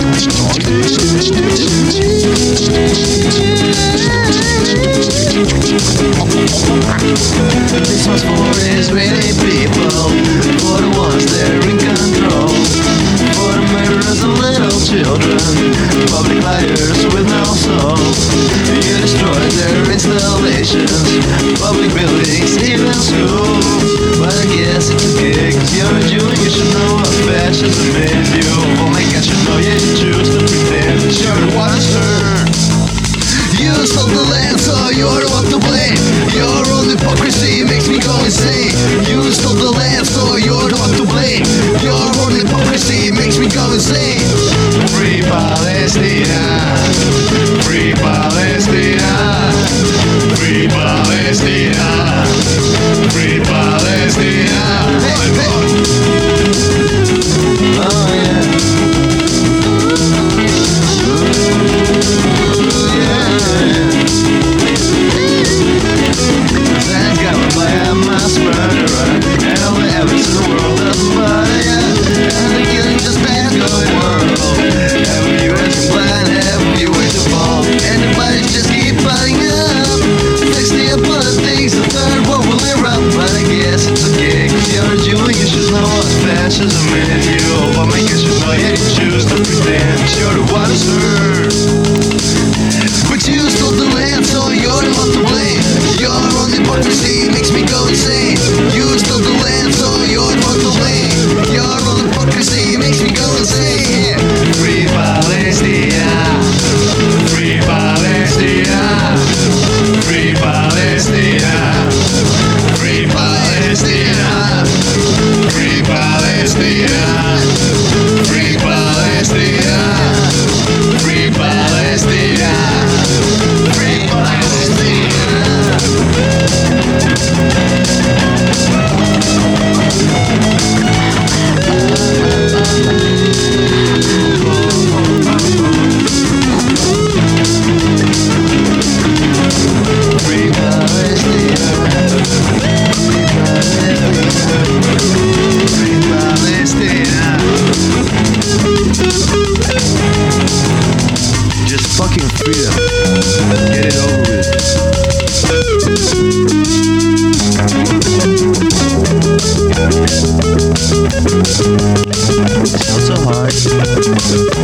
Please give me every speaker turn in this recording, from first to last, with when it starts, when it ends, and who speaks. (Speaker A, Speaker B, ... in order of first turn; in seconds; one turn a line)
Speaker A: 0.3-2.2
Speaker A: 7.7-32.6
Speaker A: 33.3-55.8
Speaker A: 57.7-58.7
Speaker A: 61.0-61.6
Speaker A: 62.4-64.1
Speaker A: 66.7-91.7
Speaker A: 93.0-125.9
Speaker A: 131.7-133.0
Speaker A: 134.2-135.9
Speaker A: 140.2-142.2
Speaker A: 142.9-144.9
Speaker A: 145.6-147.6
Speaker A: 151.6-152.9
Speaker A: 153.7-154.6
Speaker A: 162.7-163.6